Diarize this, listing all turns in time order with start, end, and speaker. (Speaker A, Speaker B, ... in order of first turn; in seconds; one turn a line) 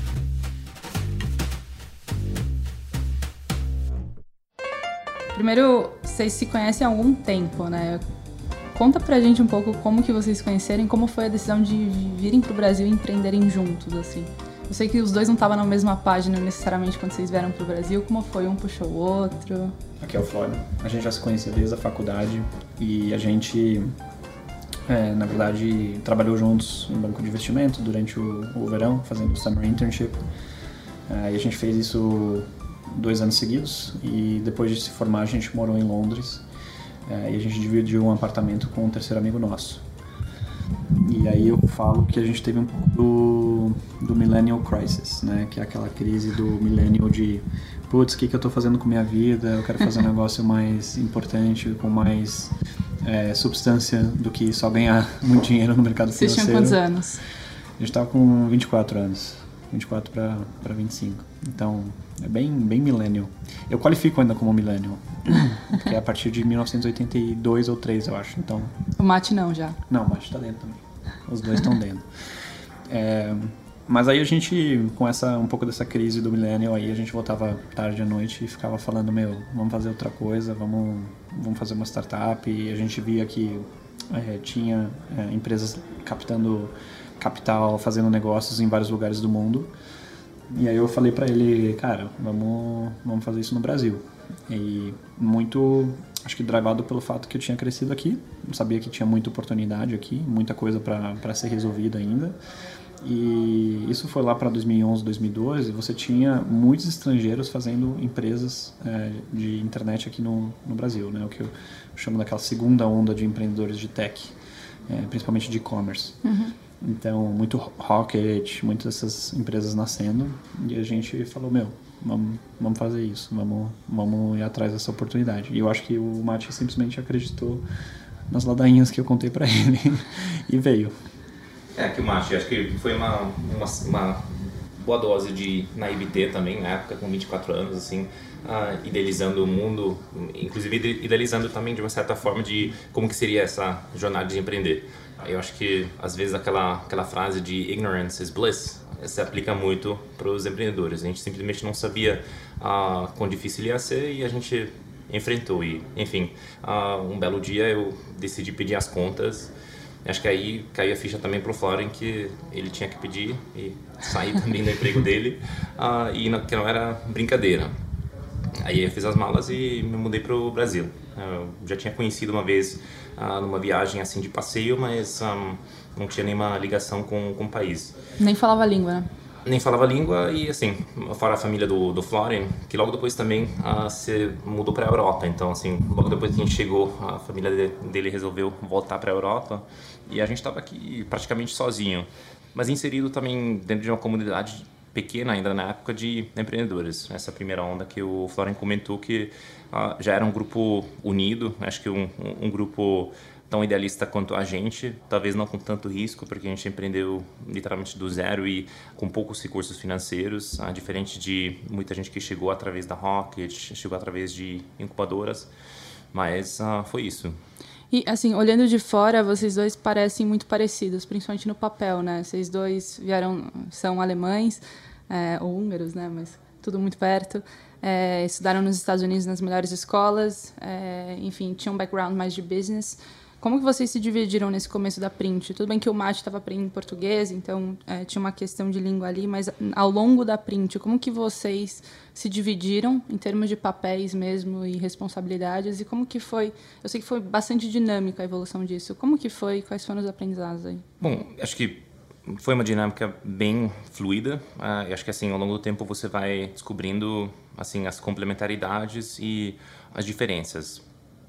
Speaker A: 5.3-8.0
Speaker A: 8.7-19.8
Speaker B: 20.0-23.9
Speaker B: 24.9-30.2
Speaker B: 31.1-36.4
Speaker B: 37.1-39.8
Speaker B: 41.0-56.8
Speaker A: 56.1-57.2
Speaker B: 57.8-68.7
Speaker A: 69.0-69.8
Speaker B: 69.9-72.1
Speaker B: 72.9-89.7
Speaker B: 90.5-102.4
Speaker B: 103.0-114.3
Speaker B: 114.9-116.2
Speaker A: 116.2-116.5
Speaker B: 116.8-127.6
Speaker B: 128.3-130.9
Speaker C: 131.8-159.5
Speaker C: 160.1-167.8
Speaker C: 168.6-178.0
Speaker A: 178.2-179.1
Speaker C: 179.4-215.5
Speaker C: 216.1-217.4
Speaker A: 217.9-250.8
Speaker C: 251.0-260.8